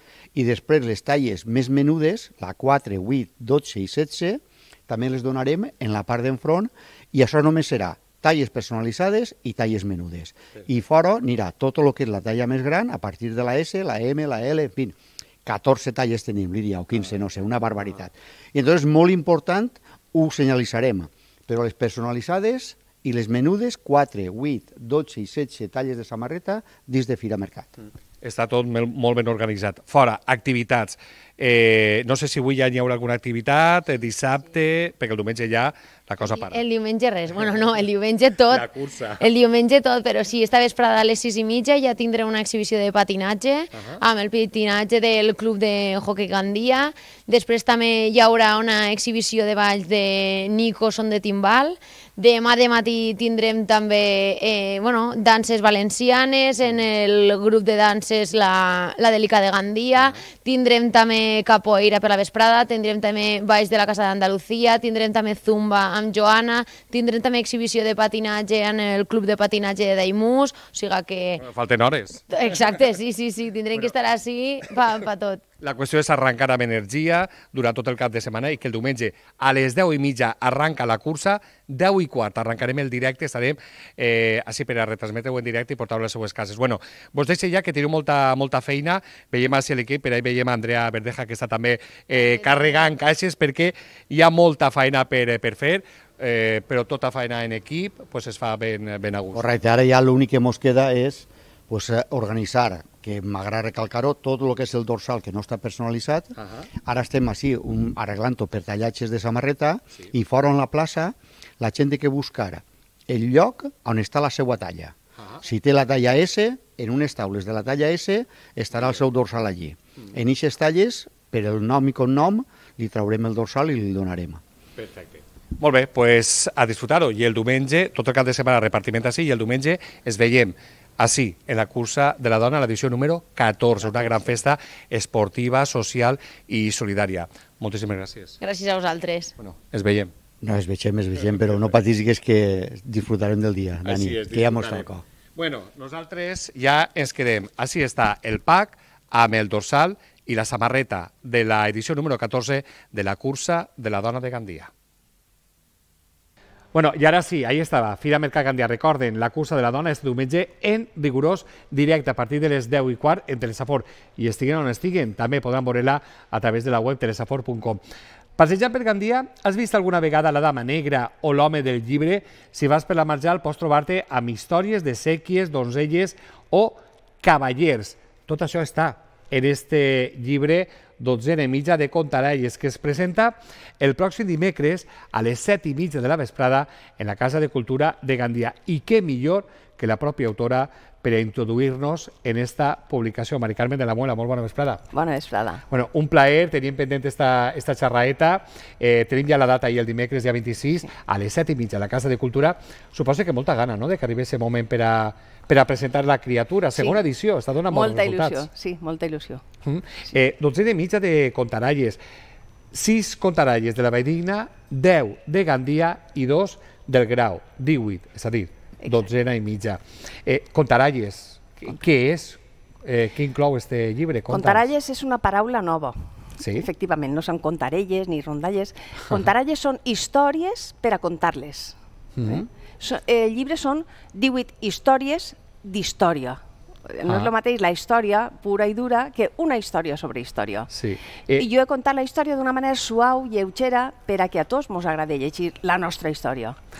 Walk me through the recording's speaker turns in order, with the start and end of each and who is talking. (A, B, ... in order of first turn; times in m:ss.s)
0:00.3-0:27.7 A
0:28.2-0:36.6 B
0:36.2-1:11.4 C
0:38.5-0:39.2 B
0:43.7-0:44.0 B
1:11.4-1:12.2 B
1:12.3-1:15.4 C
1:15.6-1:39.5 B
1:32.1-1:32.7 C
1:39.3-2:04.4 A
1:46.4-1:46.6 B
2:04.8-2:18.4 B
2:18.4-2:19.3 C
2:19.4-2:20.1 B
2:20.4-2:25.0 A
2:23.8-2:34.7 B
2:36.7-2:47.8 B
2:48.4-3:14.8 B
3:14.9-3:15.6 D
3:15.7-3:28.5 B
3:26.8-3:27.0 D
3:27.7-3:29.4 D
3:29.6-3:32.0 B
3:32.7-3:44.7 B
3:44.3-4:00.7 D
3:46.4-3:46.7 B
3:52.2-3:52.5 B
4:00.7-4:01.5 B
4:01.3-4:06.6 D